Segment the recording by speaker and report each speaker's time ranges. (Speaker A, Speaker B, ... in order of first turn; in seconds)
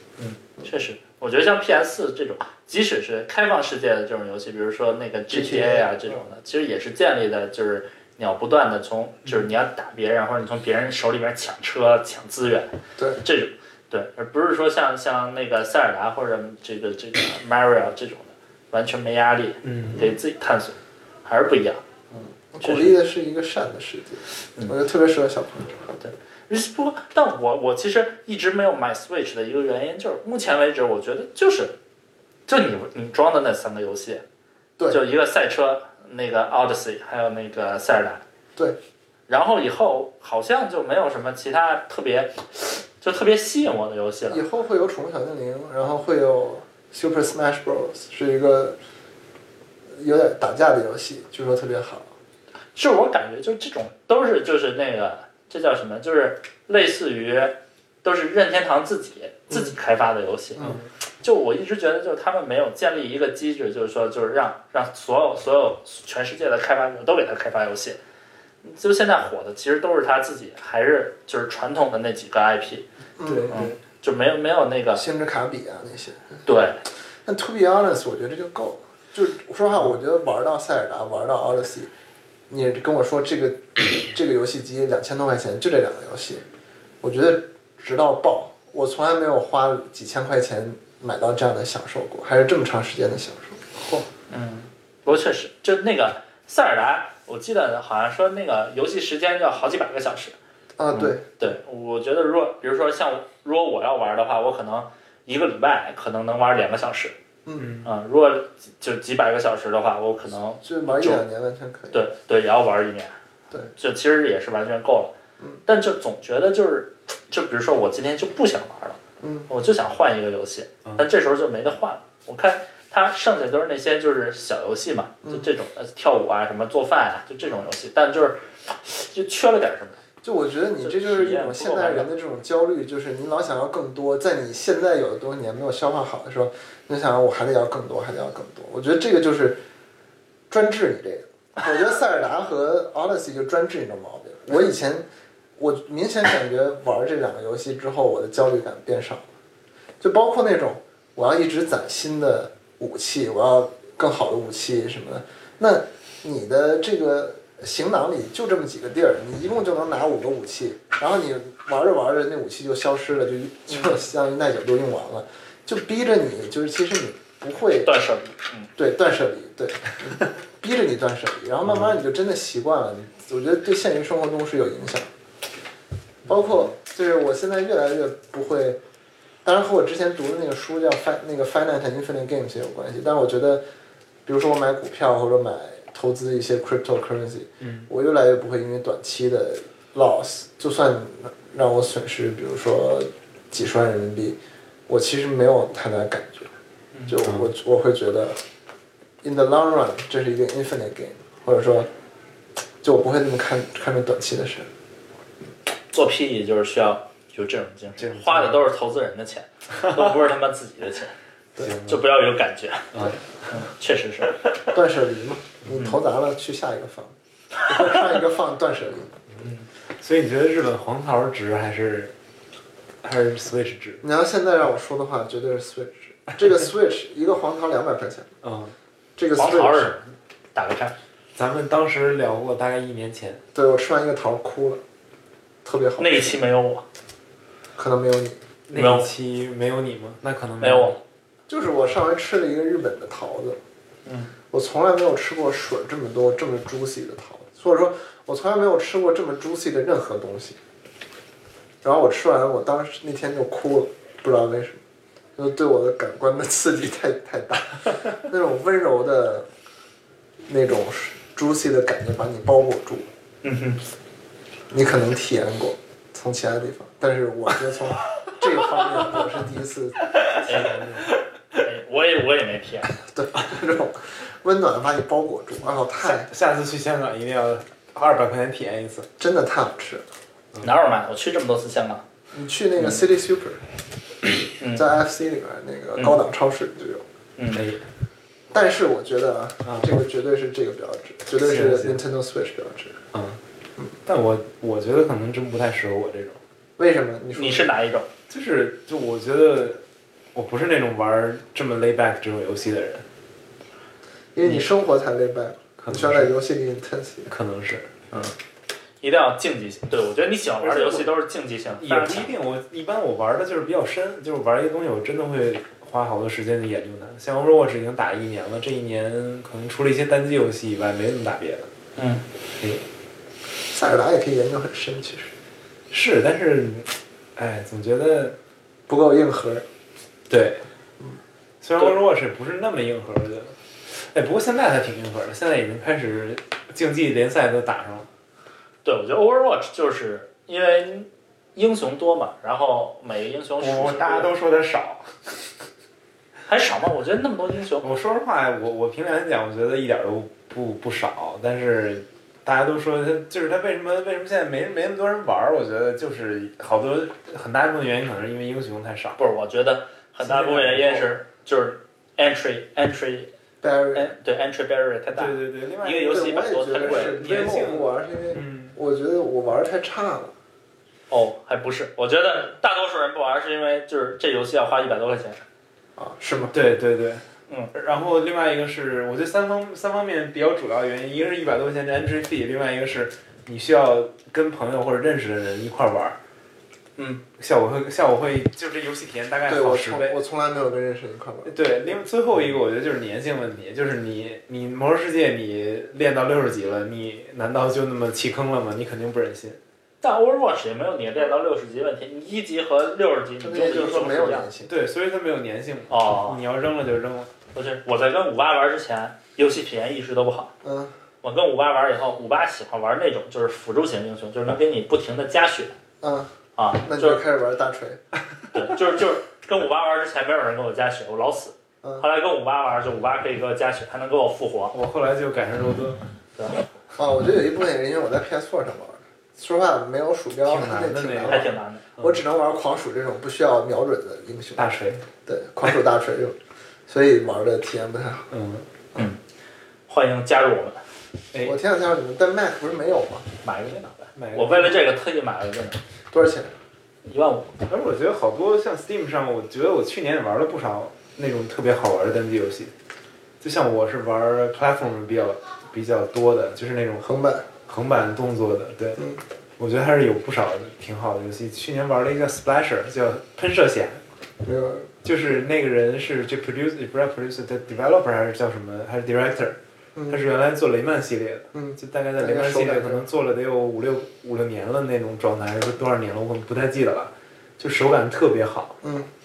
Speaker A: 0.2-21.8, 22.6-22.9, 26.0-31.7, 32.5-34.2, 34.9-38.2, 39.3-44.4, 52.7-68.0, 68.6-72.8, 73.5-75.0, 76.4-76.8, 94.3-100.3, 101.4-107.1, 107.8-111.2, 111.9-113.1, 113.7-115.1, 115.7-130.0, 130.8-132.1, 167.8-168.7, 205.9-211.1, 211.8-214.4, 215.7-216.0, 229.3-230.9, 236.0-236.8, 238.7-239.1, 240.6-241.0, 244.1-244.3, 263.4-263.8, 270.4-270.8, 271.6-272.9, 280.6-282.0, 284.6-284.9, 287.4-287.6, 297.3-298.1, 309.0-312.3, 322.0-322.2, 338.8-344.3, 346.5-347.9, 359.2-363.3, 363.9-367.1, 371.1-375.4, 400.0-404.5, 405.9-406.4, 407.5-410.5, 411.2-415.7, 416.6-417.2, 418.5-424.7, 431.2-431.8, 439.9-440.8, 443.4-445.8, 447.0-447.5
Speaker B: 5.3-6.2, 22.1-26.0, 44.3-48.8, 49.9-52.1, 73.2-73.7, 74.9-76.4, 77.2-81.9, 82.5-86.4, 87.0-93.6, 100.8-101.5, 107.5-107.7, 110.6-112.0, 119.2-119.5, 125.2-125.5, 130.2-139.6, 140.5-145.1, 145.6-149.2, 150.0-167.9, 168.8-175.1, 176.2-178.8, 179.4-183.6, 184.2-194.4, 194.9-196.5, 197.1-198.4, 199.2-201.9, 202.8-204.7, 214.7-217.1, 217.7-219.2, 224.0-228.3, 229.2-229.9, 233.5-234.8, 235.6-236.4, 237.8-238.4, 241.5-243.6, 244.5-250.6, 251.8-254.8, 255.3-259.5, 260.4-263.1, 264.7-270.8, 272.9-276.3, 279.2-280.0, 282.3-283.6, 284.7-287.0, 288.5-293.0, 296.8-297.7, 304.3-307.3, 310.6-311.0, 323.6-325.3, 328.9-329.6, 360.2-361.1, 363.6-364.1, 366.1-370.3, 376.0-376.5, 389.4-391.5, 403.4-404.7, 410.6-410.9, 416.0-418.0, 426.9-431.4, 432.0-434.7, 435.2-438.3, 441.4-443.3, 446.1-446.5, 457.0-457.5, 464.4-464.9, 469.9-470.2, 471.5-473.0, 478.8-479.1
Speaker C: 19.6-20.1, 60.6-60.9, 73.3-73.7, 107.6-107.9, 171.7-171.9, 187.6-187.9, 197.2-197.5, 208.0-208.6, 209.8-210.1, 211.6-212.0, 220.0-222.1, 223.0-224.0, 228.4-228.7, 231.3-233.4, 238.7-241.0, 270.2-271.2, 276.0-279.1, 287.5-287.8, 289.6-289.9, 291.4-292.0, 293.1-293.4, 294.1-296.4, 298.3-299.8, 300.3-303.0, 305.8-306.3, 307.3-308.1, 311.8-321.7, 325.9-328.4, 330.3-330.6, 331.6-338.1, 343.6-345.5, 347.8-359.2, 365.1-368.8, 376.5-386.2, 387.2-390.2, 391.4-399.6, 404.7-407.3, 424.7-426.0, 430.4-432.2, 434.6-435.0, 438.3-438.7, 444.1-444.9, 447.7-452.7, 453.4-457.1, 457.6-459.0, 459.6-464.0, 465.0-469.6, 470.1-478.8